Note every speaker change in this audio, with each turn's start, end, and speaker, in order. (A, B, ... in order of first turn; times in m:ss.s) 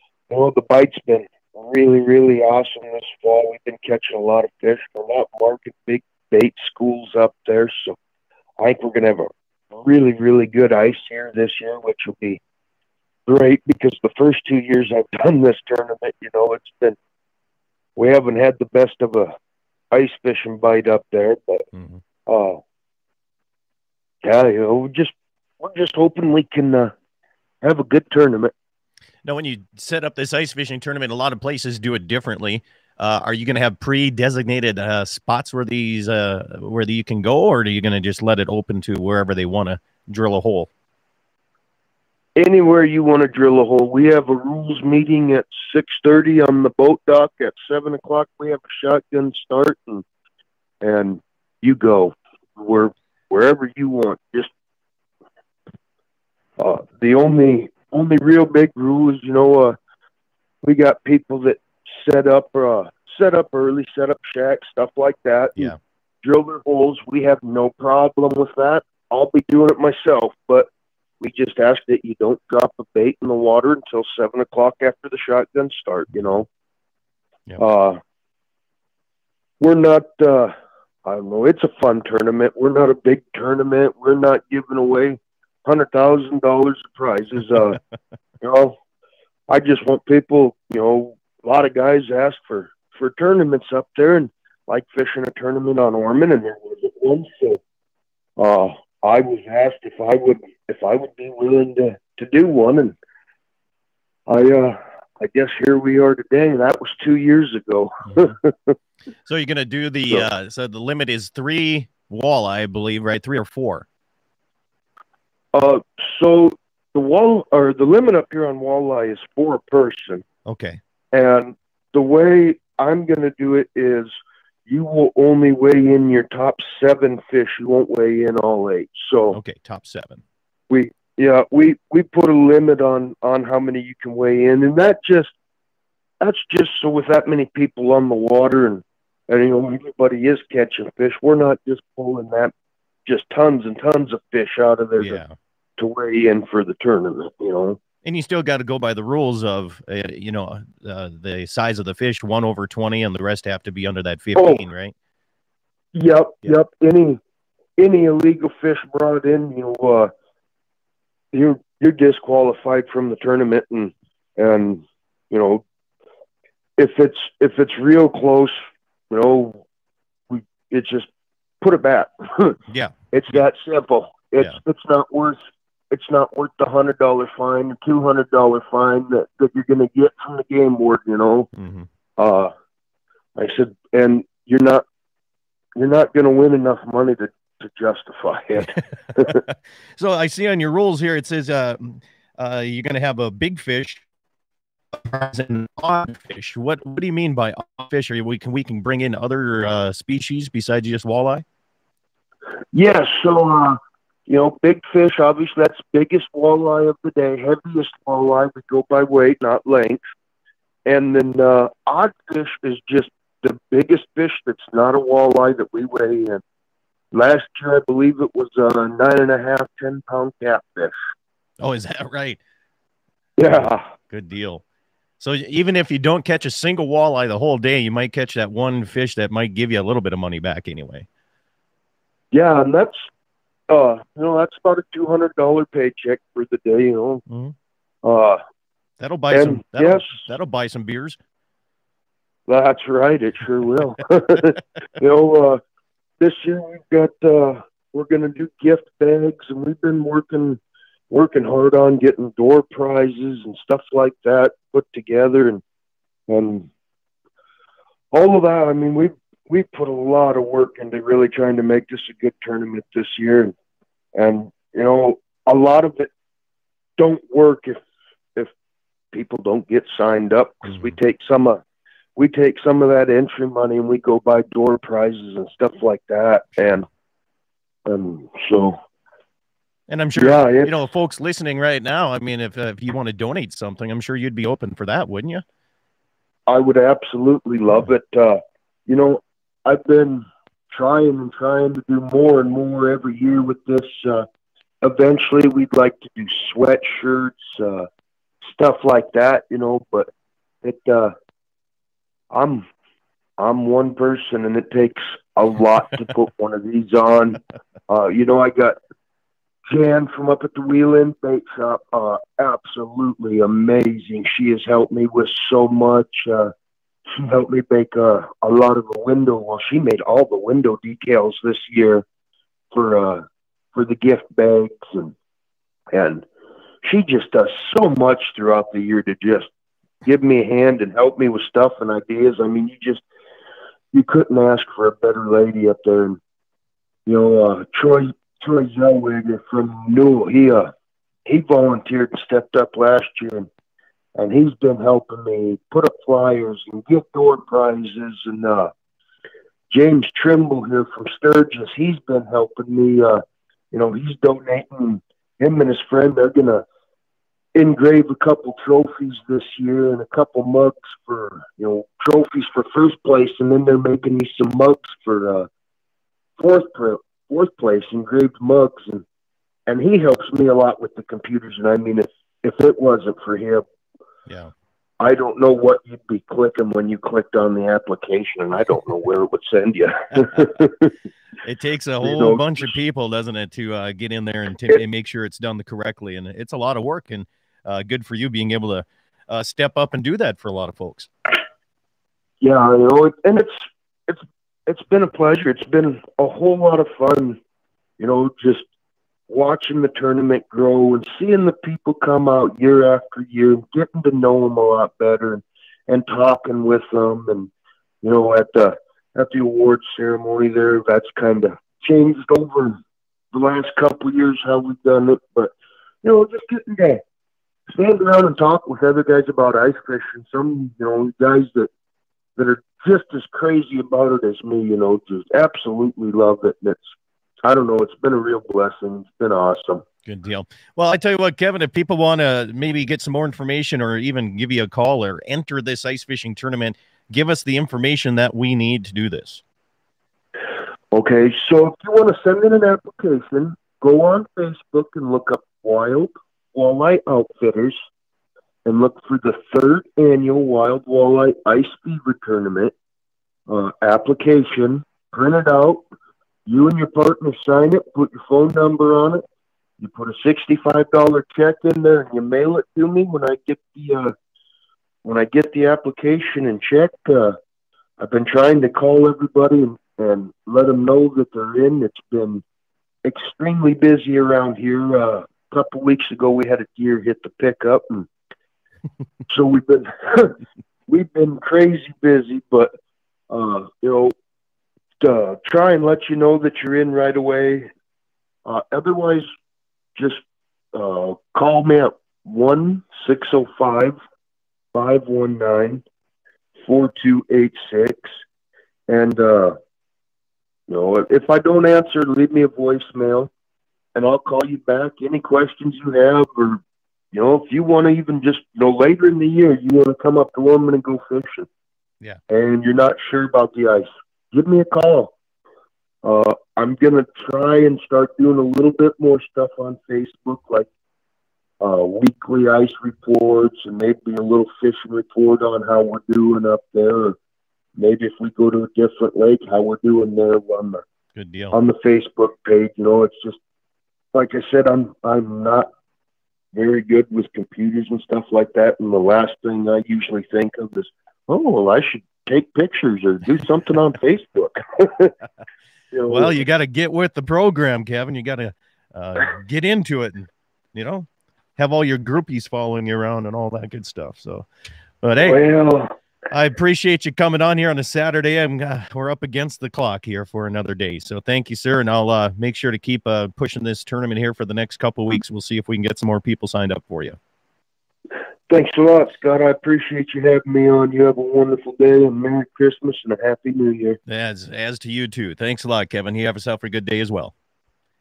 0:00.3-0:08.0 A
0:08.6-0:12.4 A
0:13.2-0:17.0 A
0:18.0-0:19.4 A
0:19.9-0:21.6 A
0:21.7-0:22.0 B
0:22.2-0:22.6 A
0:24.2-0:26.9 A
0:27.6-0:28.5 A
0:29.2-0:40.7 B
0:42.4-0:50.0 A
0:50.8-0:54.5 A
0:56.6-0:59.8 A
1:00.6-1:16.5 A
1:17.6-1:18.0 A
1:19.6-1:27.8 A
1:28.4-1:28.8 A
1:29.5-1:37.6 A
1:38.4-1:42.9 A
1:44.3-1:48.7 A
1:48.1-1:48.3 B
1:49.2-1:53.8 B
1:55.5-2:00.2 A
2:00.5-2:00.8 B
2:01.1-2:04.1 A
2:04.7-2:09.4 A
2:09.3-2:10.2 B
2:10.7-2:15.3 A
2:16.2-2:22.5 A
2:23.0-2:25.2 A
2:25.0-2:25.3 B
2:25.8-2:27.8 A
2:28.0-2:34.9 B
2:34.3-2:34.6 A
2:35.9-2:37.2 A
2:37.8-2:40.1 A
2:41.3-2:45.6 A
2:46.8-2:49.6 A
2:50.3-2:51.1 A
2:51.6-2:52.6 A
2:53.1-2:55.4 A
2:55.9-3:01.5 A
3:01.6-3:01.9 B
3:02.2-3:02.5 A
3:03.4-3:04.8 A
3:05.8-3:09.4 A
3:10.0-3:14.0 B
3:14.9-3:21.4 B
3:22.7-3:30.0 A
3:30.8-3:36.4 A
3:37.1-3:40.9 A
3:41.6-3:42.4 B
3:43.4-3:43.9 A
3:43.5-3:44.6 B
3:45.2-3:51.0 B
3:52.3-3:53.1 A
3:53.7-3:57.2 A
3:57.3-3:57.5 B
3:58.0-3:58.4 A
3:59.0-4:01.2 B
3:59.3-4:00.2 A
4:02.5-4:05.6 A
4:06.2-4:15.6 A
4:16.3-4:16.7 A
4:18.1-4:23.5 A
4:24.1-4:26.1 A
4:27.0-4:27.8 A
4:29.1-4:31.6 A
4:30.6-4:30.9 B
4:32.2-4:36.8 A
4:36.6-4:36.8 B
4:37.8-4:38.8 A
4:39.9-4:45.4 B
4:40.2-4:40.7 A
4:46.5-4:54.2 A
4:54.8-4:57.9 A
4:58.4-5:00.1 A
5:00.6-5:01.1 A
5:02.3-5:02.6 A
5:03.4-5:08.8 A
5:09.7-5:16.5 A
5:17.1-5:22.0 A
5:22.7-5:25.1 A
5:25.9-5:26.2 A
5:26.8-5:29.5 A
5:30.0-5:33.0 A
5:33.9-5:36.2 A
5:37.0-5:40.7 A
5:41.2-5:43.5 A
5:44.2-5:48.7 A
5:49.7-5:56.6 A
5:57.5-6:05.5 A
6:06.4-6:09.0 A
6:09.7-6:13.6 A
6:14.3-6:14.5 B
6:15.0-6:20.9 A
6:21.4-6:31.1 B
6:22.0-6:22.7 A
6:32.4-6:37.4 A
6:38.0-6:38.6 A
6:39.3-6:47.5 A
6:48.0-6:52.8 A
6:53.3-6:55.5 A
6:56.0-6:57.0 A
6:57.7-7:01.7 A
7:02.4-7:06.8 A
7:07.4-7:09.8 A
7:10.0-7:19.4 B
7:20.9-7:27.8 A
7:28.6-7:32.7 A
7:33.5-7:35.8 A
7:36.4-7:39.2 A
7:39.8-7:44.1 A
7:45.0-7:47.4 A
7:48.0-7:52.4 A
7:53.0-7:58.1 A
7:59.3-8:00.4 A
8:00.9-8:02.7 A
8:03.3-8:04.1 A
8:05.0-8:07.7 A
8:08.4-8:09.3 A
8:10.0-8:10.2 A
8:10.7-8:14.0 A
8:14.7-8:15.8 A
8:16.6-8:18.2 A
8:18.9-8:19.6 A
8:20.7-8:23.3 A
8:23.9-8:26.6 A
8:27.1-8:31.5 A
8:32.3-8:35.1 A
8:36.0-8:40.7 A
8:41.6-8:47.2 A
8:47.8-8:50.8 A
8:51.2-8:51.6 B
8:51.5-8:53.4 A
8:54.1-8:55.7 A
8:56.5-9:05.1 A
9:05.9-9:06.4 A
9:06.1-9:11.1 B
9:11.6-9:14.4 B
9:15.0-9:15.4 B
9:15.2-9:15.9 A
9:16.3-9:27.2 B
9:28.5-9:34.0 A
9:34.1-9:37.3 B